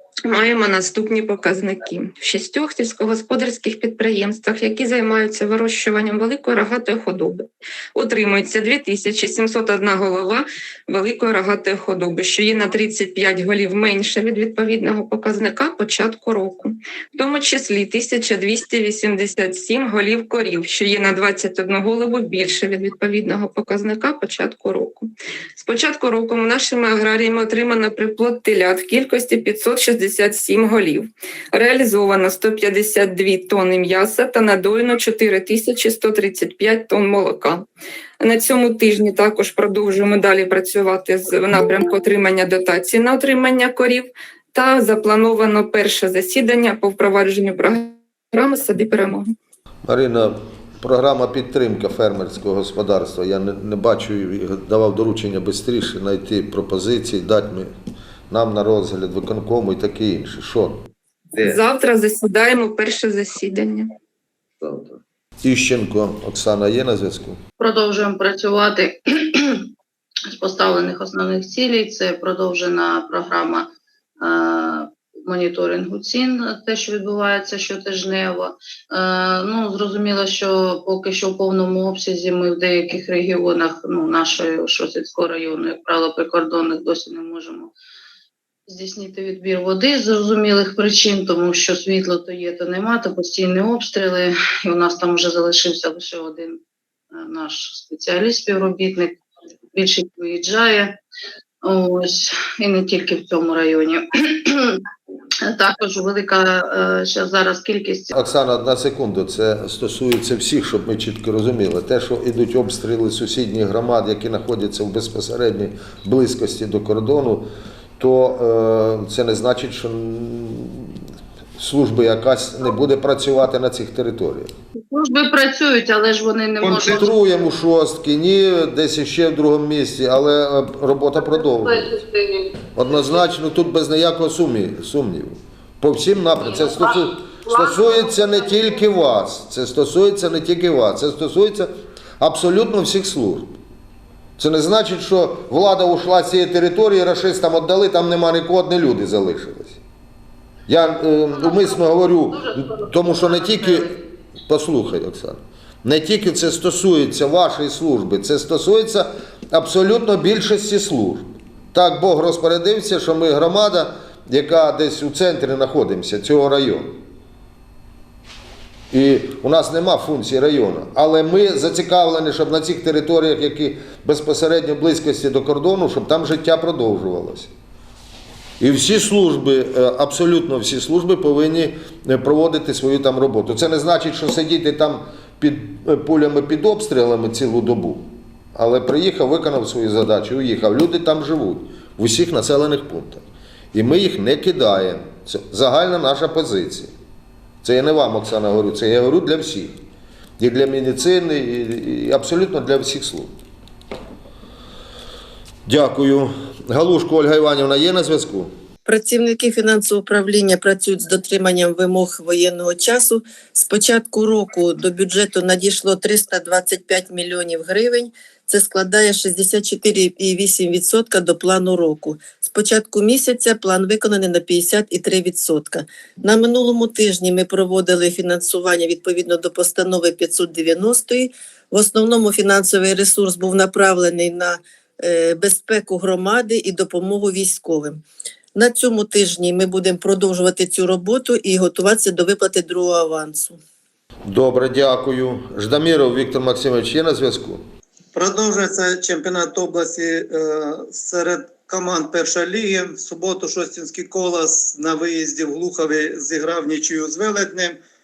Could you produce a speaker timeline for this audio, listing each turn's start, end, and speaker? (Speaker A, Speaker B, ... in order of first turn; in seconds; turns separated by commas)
Speaker A: 0.2-37.6, Speaker A: 38.2-49.3, Speaker B: 49.8-57.7, Speaker B: 58.3-61.6, Speaker A: 61.4-63.9, Speaker B: 64.6-67.4, Speaker C: 67.6-69.7, Speaker C: 70.3-73.7, Speaker C: 74.2-87.7, Speaker C: 88.7-96.6, Speaker C: 97.1-99.2, Speaker C: 99.7-101.0, Speaker C: 101.6-104.8, Speaker C: 105.4-108.1, Speaker B: 108.1-121.0, Speaker B: 121.6-124.5, Speaker C: 124.8-127.2, Speaker B: 126.6-132.0, Speaker C: 131.2-132.5, Speaker B: 132.7-143.5, Speaker C: 136.4-136.9, Speaker C: 137.4-138.8, Speaker B: 144.4-149.8, Speaker B: 150.7-166.9, Speaker C: 151.3-153.9, Speaker B: 168.9-177.5, Speaker B: 178.6-196.9, Speaker B: 197.6-199.7, Speaker B: 200.4-203.3, Speaker B: 205.7-208.5, Speaker D: 208.8-238.0, Speaker D: 238.5-243.6, Speaker B: 244.2-247.6, Speaker E: 248.1-257.8